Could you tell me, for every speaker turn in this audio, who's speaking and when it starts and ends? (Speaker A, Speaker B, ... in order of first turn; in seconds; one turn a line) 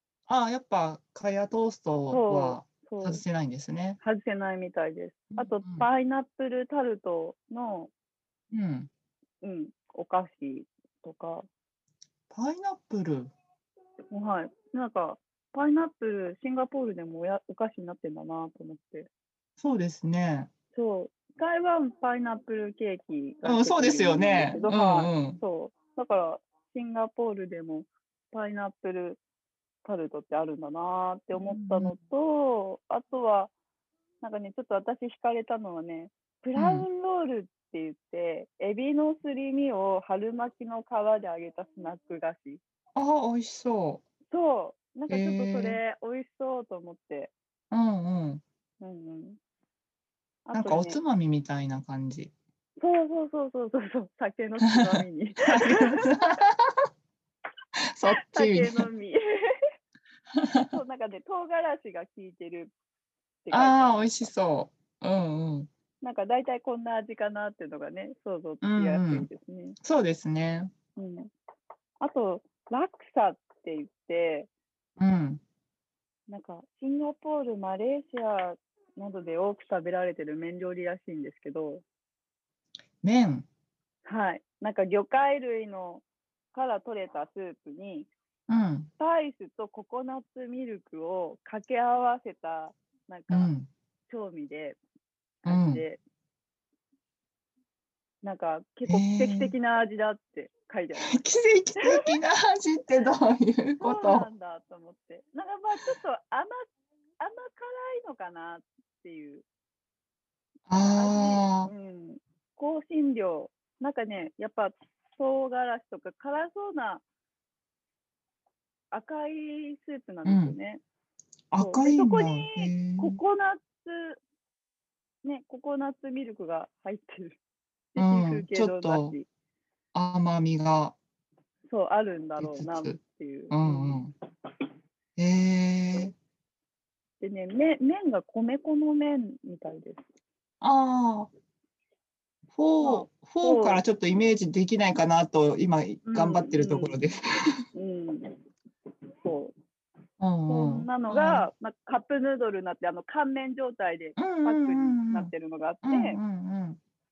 Speaker A: 0.3-4.0
Speaker B: 2.1-3.2
Speaker B: 4.0-7.9
Speaker A: 5.3-5.9
Speaker A: 8.5-8.9
Speaker B: 9.4-11.4
Speaker A: 12.3-13.3
Speaker B: 14.1-19.1
Speaker A: 19.6-20.5
Speaker B: 20.7-29.2
Speaker A: 23.4-25.4
Speaker B: 29.8-33.5
Speaker A: 31.3-32.0
Speaker B: 34.2-42.6
Speaker A: 36.6-36.9
Speaker A: 43.0-44.0
Speaker B: 44.3-47.3
Speaker A: 45.1-45.8
Speaker A: 47.7-48.4
Speaker B: 48.8-49.4
Speaker B: 50.5-51.0
Speaker A: 50.5-52.3
Speaker B: 52.8-56.2
Speaker A: 54.7-56.8
Speaker A: 57.9-58.9
Speaker B: 58.2-59.6
Speaker A: 60.4-60.7
Speaker B: 60.7-62.7
Speaker B: 63.5-64.2
Speaker A: 63.5-65.7
Speaker B: 66.0-69.8
Speaker A: 68.6-69.3
Speaker A: 69.8-70.7
Speaker B: 71.0-71.3
Speaker B: 72.0-74.5
Speaker A: 75.0-75.4
Speaker B: 76.3-81.8
Speaker A: 83.0-83.5
Speaker B: 84.0-88.1
Speaker A: 88.5-88.9
Speaker B: 89.0-93.5
Speaker A: 93.3-93.7
Speaker B: 94.1-94.8
Speaker B: 95.4-96.0
Speaker A: 95.5-95.8
Speaker B: 98.2-101.2
Speaker A: 98.9-99.5
Speaker A: 101.0-104.3
Speaker B: 103.8-106.7
Speaker B: 107.2-109.5
Speaker A: 110.7-111.7
Speaker B: 111.0-117.0
Speaker B: 118.9-120.8
Speaker A: 120.2-120.5
Speaker A: 121.5-123.2
Speaker B: 121.6-124.2
Speaker B: 125.2-127.4
Speaker B: 127.9-129.3
Speaker A: 128.0-129.2
Speaker A: 129.9-130.9
Speaker B: 131.7-134.0
Speaker A: 132.4-133.0
Speaker A: 133.5-134.1
Speaker A: 135.2-136.1
Speaker B: 137.2-140.0
Speaker A: 140.6-141.3
Speaker A: 142.5-147.7
Speaker B: 142.8-143.8
Speaker B: 146.0-147.0
Speaker B: 147.7-148.4
Speaker B: 149.2-149.5
Speaker A: 150.2-151.5
Speaker B: 150.5-156.2
Speaker A: 154.2-155.3
Speaker A: 155.8-156.8